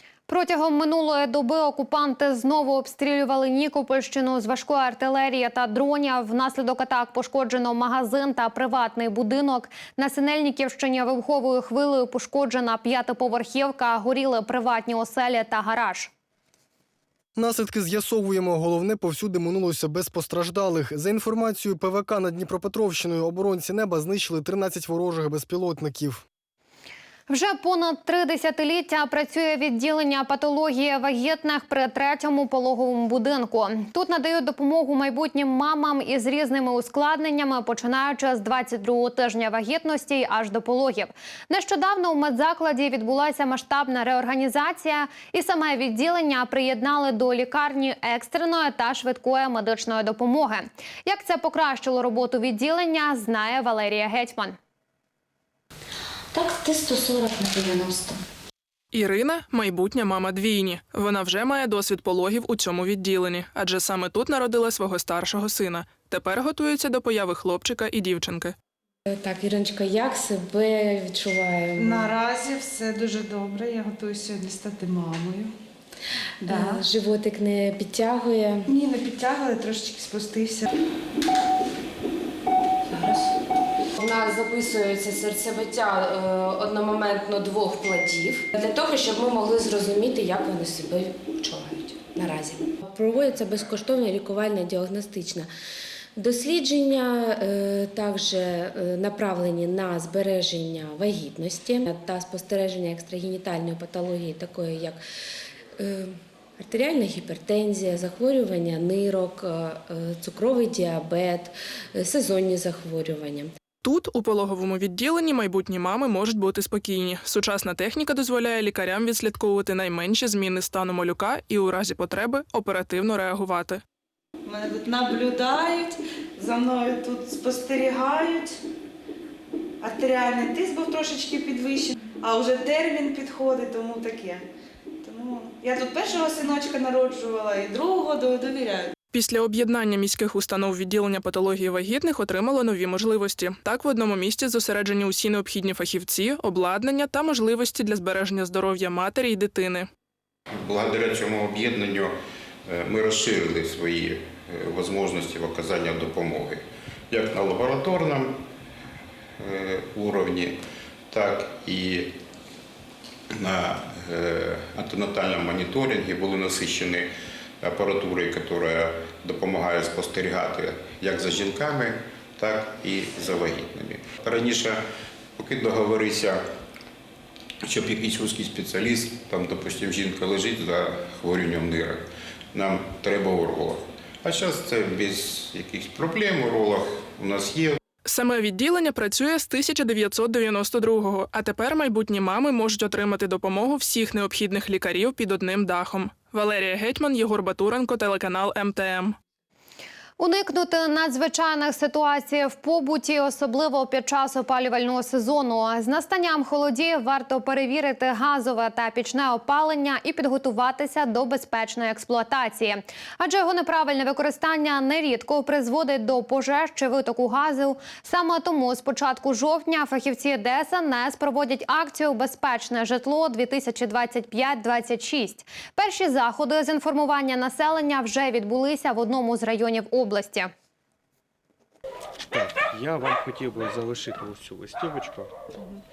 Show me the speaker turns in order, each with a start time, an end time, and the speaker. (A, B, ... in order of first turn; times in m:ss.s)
0:00.3-0:16.1 A
0:17.4-0:26.2 B
0:27.3-0:54.6 A
0:56.4-0:58.1 C
0:58.9-1:08.5 D
1:09.1-1:12.1 C
1:11.8-1:15.5 E
1:16.4-1:18.7 C
1:16.5-1:16.8 E
1:18.7-1:20.7 E
1:24.0-1:35.5 C
1:36.2-1:45.0 C
1:45.8-1:53.5 C
1:53.8-2:03.8 D
2:04.4-2:08.6 E
2:09.8-2:14.4 E
2:15.0-2:18.9 E
2:19.1-2:29.9 D
2:30.5-2:38.4 F
2:39.4-2:42.2 F
2:43.3-2:54.8 F
2:55.4-2:56.4 F
2:57.6-3:07.8 F
3:08.0-3:19.2 D
3:20.2-3:50.5 A
3:52.3-3:55.3 G